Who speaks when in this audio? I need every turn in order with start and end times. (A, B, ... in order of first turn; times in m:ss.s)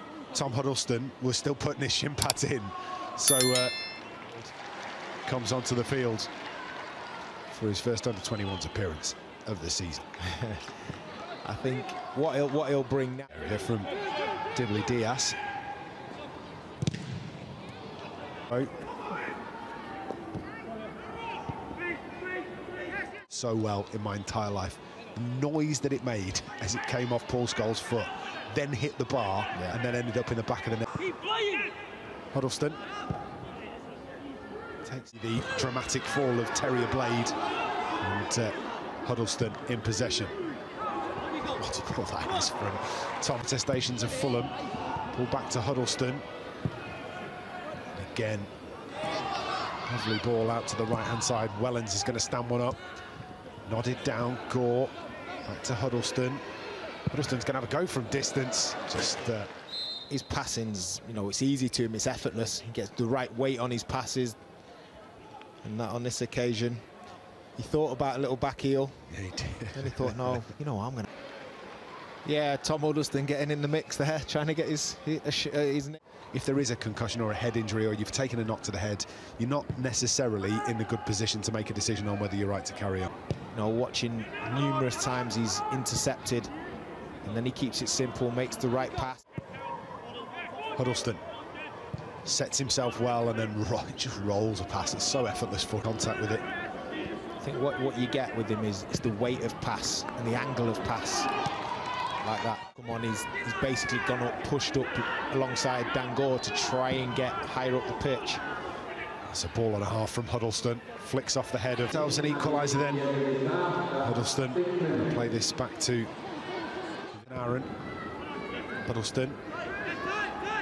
0:00.3-0:03.7 A
0:05.2-0:06.3 A
0:07.5-0:10.1 A
0:10.2-0:10.9 B
0:11.4-0:13.3 B
0:13.3-0:13.9 A
0:14.5-0:15.4 A
0:23.3-0:31.0 A
0:32.3-0:32.8 A
0:34.9-0:37.4 A
0:38.0-0:40.4 A
0:41.6-0:44.6 A
0:45.1-0:46.3 A
0:47.9-0:48.5 A
0:49.9-0:52.8 A
0:53.7-0:54.9 A
0:55.4-0:56.4 A
0:57.1-0:59.5 A
1:00.1-1:04.4 B
1:05.6-1:06.8 B
1:07.6-1:09.1 B
1:09.1-1:10.4 A
1:09.7-1:11.1 B
1:12.2-1:16.0 B
1:16.3-1:23.1 A
1:23.5-1:26.5 B
1:27.2-1:29.2 B
1:30.8-1:31.2 A
1:32.2-1:36.4 A
1:37.4-1:41.3 B
1:42.2-1:48.4 B
1:49.3-1:56.1 A
1:57.1-1:57.7 A
1:58.8-1:59.4 A